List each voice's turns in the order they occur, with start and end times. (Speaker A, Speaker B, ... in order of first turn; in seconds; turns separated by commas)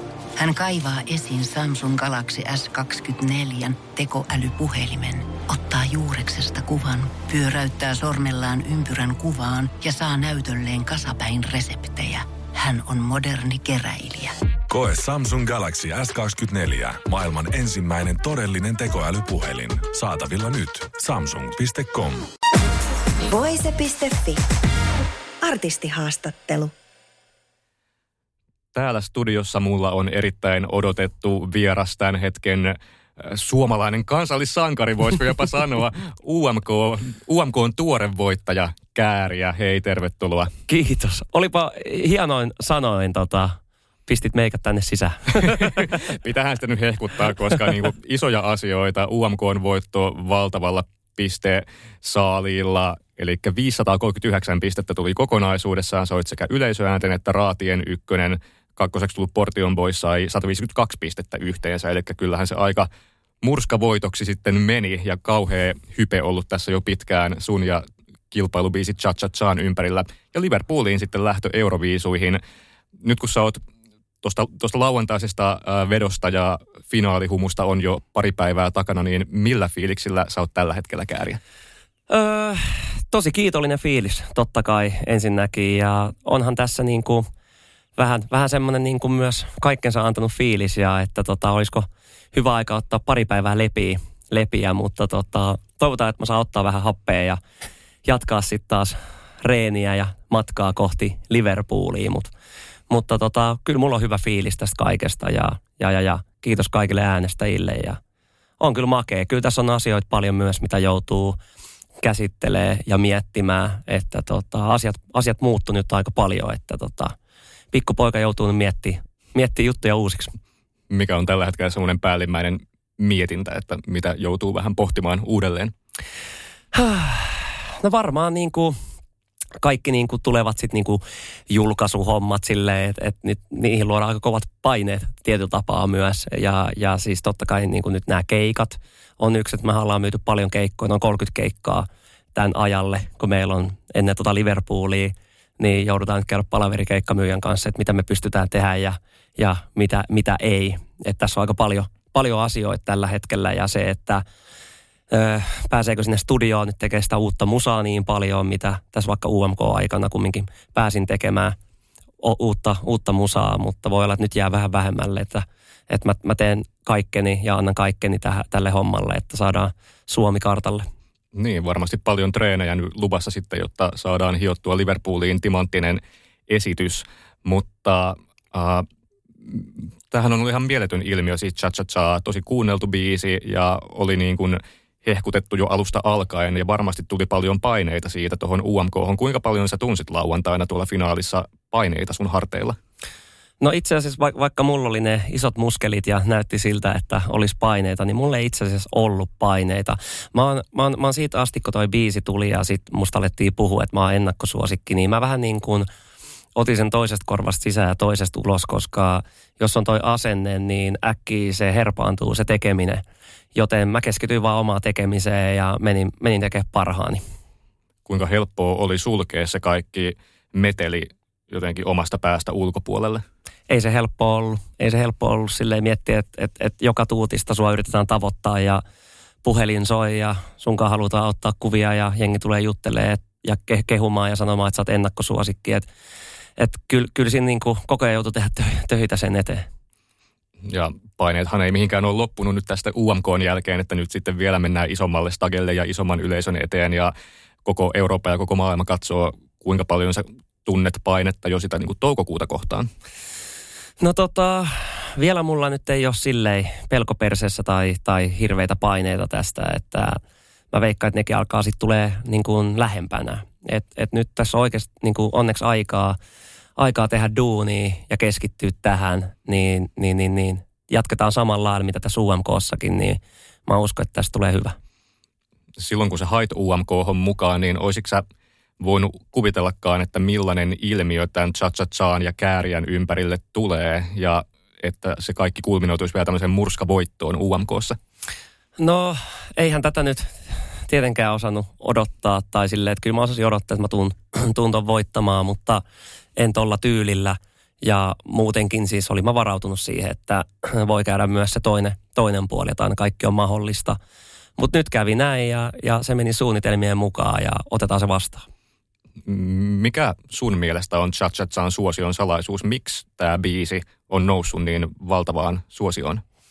Speaker A: 0.4-14.3, Speaker B: 14.7-22.3, Speaker C: 23.3-24.4, Speaker C: 25.4-26.7, Speaker D: 28.7-40.5, Speaker E: 40.7-46.0, Speaker D: 45.5-62.9, Speaker D: 63.4-72.4, Speaker D: 73.0-73.6, Speaker D: 74.2-81.4, Speaker E: 82.1-87.3, Speaker E: 88.0-97.4, Speaker E: 98.0-102.3, Speaker E: 102.9-108.0, Speaker E: 108.6-111.4, Speaker E: 112.0-117.1, Speaker E: 117.7-120.3, Speaker D: 120.9-125.7, Speaker E: 126.7-128.8, Speaker E: 129.6-154.2, Speaker E: 155.1-161.6, Speaker E: 162.2-170.8, Speaker D: 171.3-178.8, Speaker D: 179.4-192.8, Speaker E: 193.6-205.9, Speaker E: 206.5-213.0, Speaker E: 213.5-217.2, Speaker D: 218.1-223.2, Speaker E: 223.7-228.8, Speaker E: 229.4-235.9, Speaker E: 236.6-239.7, Speaker D: 240.6-247.1, Speaker D: 247.6-252.9, Speaker E: 254.0-260.2, Speaker E: 260.7-266.2, Speaker E: 266.8-274.8, Speaker D: 275.8-278.2, Speaker D: 278.8-288.0, Speaker E: 288.8-295.8, Speaker E: 296.4-304.0, Speaker E: 304.6-308.4, Speaker D: 309.2-316.2